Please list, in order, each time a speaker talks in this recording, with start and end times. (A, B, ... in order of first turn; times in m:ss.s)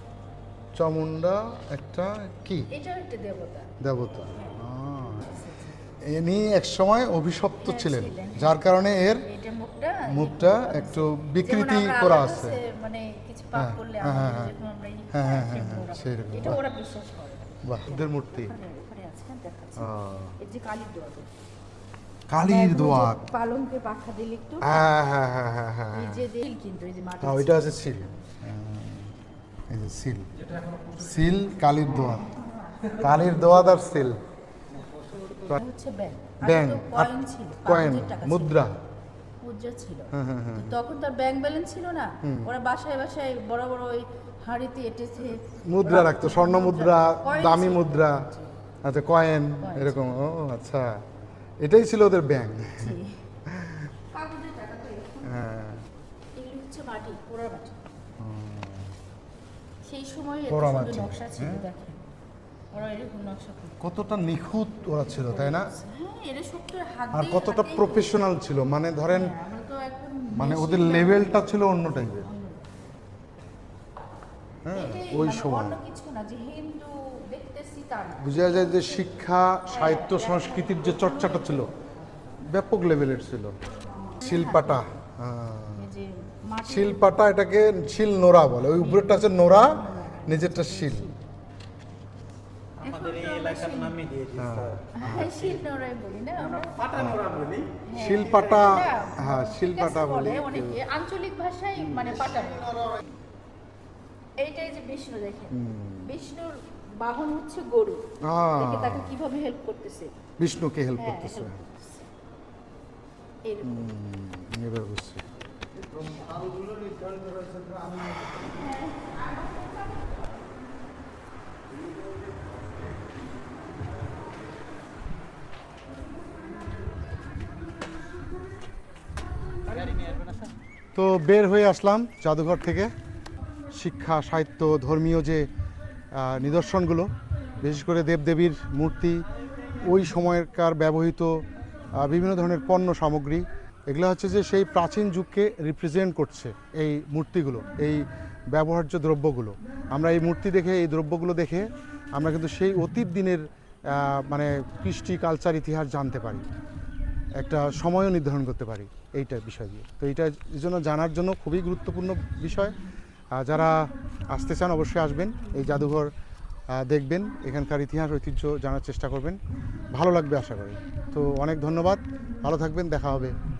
0:00.8-0:02.7 A
0:02.7-0:03.7 B
0:03.8-0:05.4 A
0:04.3-0:04.6 B
0:05.2-0:05.8 B
0:06.0-0:09.2 A
0:07.6-0:08.6 B
0:09.2-0:21.3 B
0:10.0-0:12.6 A
0:13.6-0:14.6 A
0:15.1-0:16.6 A
0:17.6-0:18.5 A
0:19.8-0:20.4 A
0:22.3-0:23.2 A
0:22.4-0:24.9 B
0:24.6-0:26.2 A
0:25.9-0:28.1 B
0:27.2-0:29.1 A
0:29.7-0:32.3 A
0:32.0-0:33.3 B
0:32.9-0:34.2 A
0:35.6-0:38.6 B
0:36.4-0:38.7 A
0:39.4-0:48.5 B
0:40.1-0:40.8 A
0:42.2-0:42.5 A
0:45.7-0:48.2 A
0:48.8-0:51.0 A
0:49.6-0:50.1 B
0:51.6-0:53.9 A
0:52.8-0:53.2 B
0:54.1-0:55.4 B
0:55.2-0:55.8 A
0:56.4-0:57.8 B
0:58.2-0:59.0 A
0:59.8-1:02.0 B
1:00.5-1:01.6 A
1:02.7-1:03.8 B
1:03.8-1:05.7 A
1:05.2-1:08.2 B
1:07.1-1:09.4 A
1:09.1-1:12.7 B
1:10.4-1:12.3 A
1:14.7-1:15.8 A
1:14.7-1:21.7 B
1:18.2-1:21.7 A
1:22.4-1:23.6 A
1:24.0-1:24.9 B
1:24.2-1:25.9 A
1:25.8-1:27.1 B
1:26.6-1:31.1 A
1:28.7-1:31.2 B
1:32.8-1:34.0 B
1:32.8-1:34.9 C
1:34.3-1:35.4 A
1:34.9-1:36.9 B
1:36.9-1:37.3 A
1:37.0-1:37.6 C
1:37.8-1:43.0 B
1:37.9-1:40.8 A
1:44.4-1:50.1 B
1:45.5-1:46.2 A
1:48.2-1:49.1 A
1:50.4-1:51.6 A
1:51.0-1:52.0 B
1:53.4-1:53.9 B
1:53.6-1:55.2 A
1:57.3-1:58.0 C
1:58.4-2:00.3 B
2:10.9-2:12.9 A
2:13.7-2:15.5 A
2:16.1-2:19.2 A
2:19.8-2:21.4 A
2:22.0-2:36.4 A
2:37.4-2:42.7 A
2:43.3-2:46.1 A
2:46.7-2:49.4 A
2:49.9-2:53.3 A